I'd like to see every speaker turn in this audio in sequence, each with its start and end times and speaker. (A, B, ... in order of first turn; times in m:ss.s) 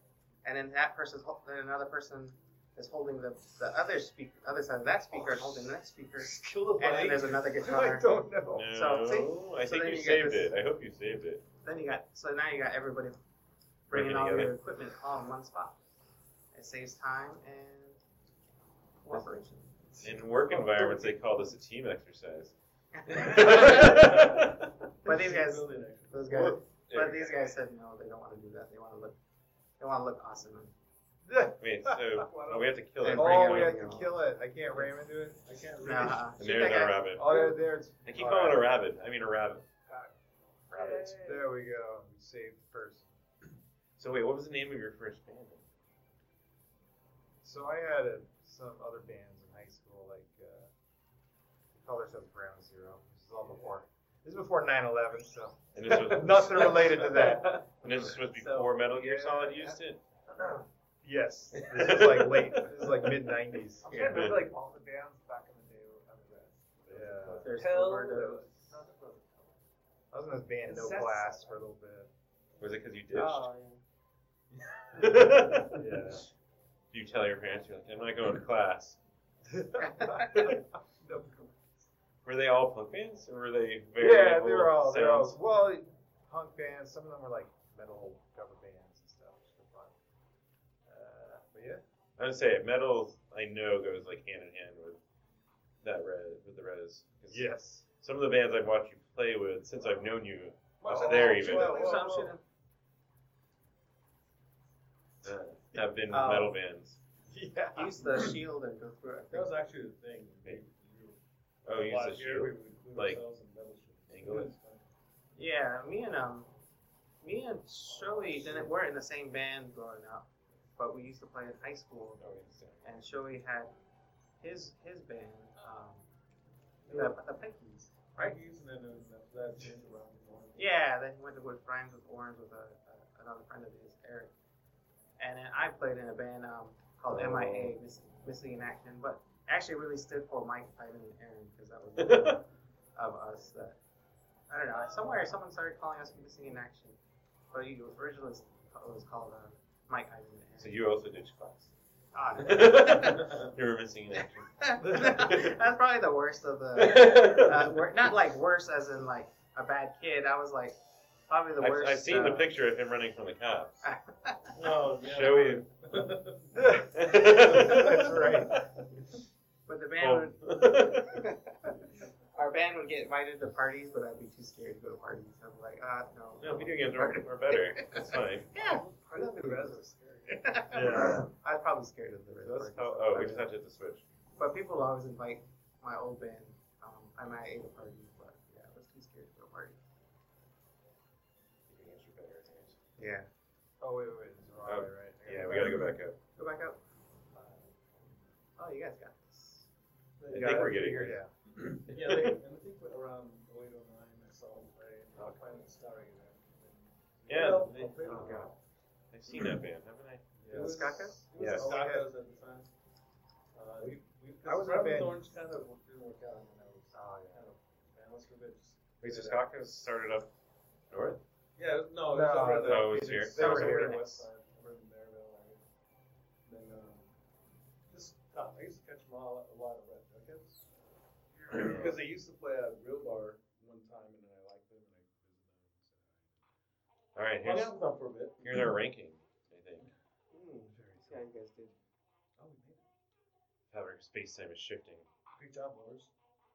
0:00.4-0:08.1 A
0:06.3-0:07.4 B
0:07.6-0:08.7 C
0:08.5-0:11.4 D
0:08.7-0:10.5 A
0:11.6-0:13.2 A
0:13.9-0:15.8 A
0:13.9-0:14.5 D
0:16.5-0:18.0 A
0:19.0-0:19.7 A
0:19.9-0:21.1 E
0:20.0-0:22.5 D
0:22.9-0:24.2 A
0:23.1-0:24.7 D
0:23.4-0:24.4 E
0:25.0-0:26.5 E
0:25.0-0:29.2 A
0:26.3-0:27.5 D
0:29.8-0:30.7 A
0:31.2-0:32.2 C
0:31.6-0:33.8 D
0:32.2-0:32.8 B
0:33.0-0:34.2 A
0:33.0-0:35.4 C
0:35.4-0:36.3 E
0:35.8-0:37.4 A
0:36.4-0:37.4 D
0:37.1-0:38.7 C
0:38.0-0:39.6 D
0:39.9-0:40.1 B
0:40.7-0:41.5 B
0:40.7-0:41.2 D
0:41.2-0:43.1 C
0:44.0-0:45.6 D
0:47.4-0:50.7 C
0:51.7-0:57.6 C
0:55.8-0:57.0 D
0:55.9-0:59.8 B
0:57.8-1:00.0 D
1:01.0-1:04.1 C
1:01.6-1:02.6 D
1:03.8-1:09.6 B
1:03.9-1:04.2 A
1:04.0-1:04.5 D
1:06.9-1:07.5 C
1:07.3-1:08.5 A
1:10.1-1:12.1 C
1:10.6-1:11.6 B
1:12.6-1:13.5 D
1:13.1-1:13.8 A
1:14.9-1:15.9 D
1:15.7-1:16.2 C
1:16.9-1:19.0 D
1:19.5-1:20.5 C
1:19.8-1:20.5 A
1:22.2-1:25.4 D
1:24.0-1:29.9 C
1:30.9-1:31.8 C
1:32.2-1:35.0 D
1:35.8-1:37.5 D
1:37.3-1:37.8 C
1:38.0-1:41.8 D
1:40.8-1:42.3 E
1:41.0-1:42.4 A
1:41.8-1:42.3 C
1:45.2-1:47.0 D
1:46.1-1:46.6 A
1:47.3-1:48.3 C
1:47.8-1:49.5 A
1:49.3-1:54.8 E
1:51.6-1:53.2 D
1:54.1-1:54.5 D
1:55.4-1:56.5 A
1:57.2-2:02.3 A
1:58.1-1:58.6 E
2:02.2-2:02.8 D
2:02.8-2:03.7 A
2:04.4-2:06.0 A
2:06.8-2:07.2 E
2:06.9-2:08.4 A
2:08.1-2:10.6 E
2:10.5-2:14.3 A
2:15.2-2:23.8 A
2:17.1-2:17.7 D
2:22.0-2:22.4 D
2:24.5-2:27.0 A
2:27.5-2:30.8 A
2:30.6-2:31.7 D
2:32.1-2:33.4 A
2:32.4-2:35.6 D
2:34.6-2:40.8 A
2:34.8-2:35.3 C
2:36.8-2:37.8 D
2:41.3-2:42.5 A
2:41.6-2:43.9 D
2:43.8-2:44.6 A
2:44.5-2:46.6 E
2:45.0-2:45.6 D
2:46.5-2:48.6 C
2:46.9-2:48.3 D
2:47.4-2:47.8 E
2:49.7-2:51.7 A
2:50.0-2:51.2 D
2:52.3-3:03.5 A
2:56.4-2:58.5 D
2:58.6-3:00.4 B
3:00.7-3:01.3 C
3:02.4-3:04.0 D
3:04.4-3:09.8 A
3:11.7-3:12.8 D
3:13.0-3:13.3 A
3:13.8-3:15.9 C
3:14.6-3:16.2 D
3:16.4-3:16.8 A
3:18.6-3:19.7 A
3:20.2-3:28.5 E
3:20.3-3:21.2 D
3:20.3-3:21.3 C
3:21.9-3:22.4 D
3:27.3-3:28.5 D
3:28.0-3:28.5 A
3:29.1-3:30.2 D
3:30.4-3:32.1 C
3:30.4-3:32.7 E
3:30.5-3:31.2 A
3:31.4-3:31.7 D
3:33.5-3:39.4 E
3:34.4-3:35.2 C
3:36.9-3:37.4 C
3:39.0-3:40.3 D
3:40.9-3:41.2 D
3:41.6-3:45.6 E
3:42.1-3:44.0 C
3:42.6-3:43.8 D
3:43.4-3:44.2 A
3:46.4-3:47.1 E
3:47.9-3:50.6 E
3:51.5-3:56.3 E
3:51.5-3:51.9 D
3:57.1-3:57.8 D
3:57.4-3:58.7 E
3:58.4-3:59.9 D
4:00.3-4:01.7 A
4:00.7-4:01.2 C
4:02.4-4:02.8 E
4:03.7-4:05.0 D
4:05.4-4:06.1 E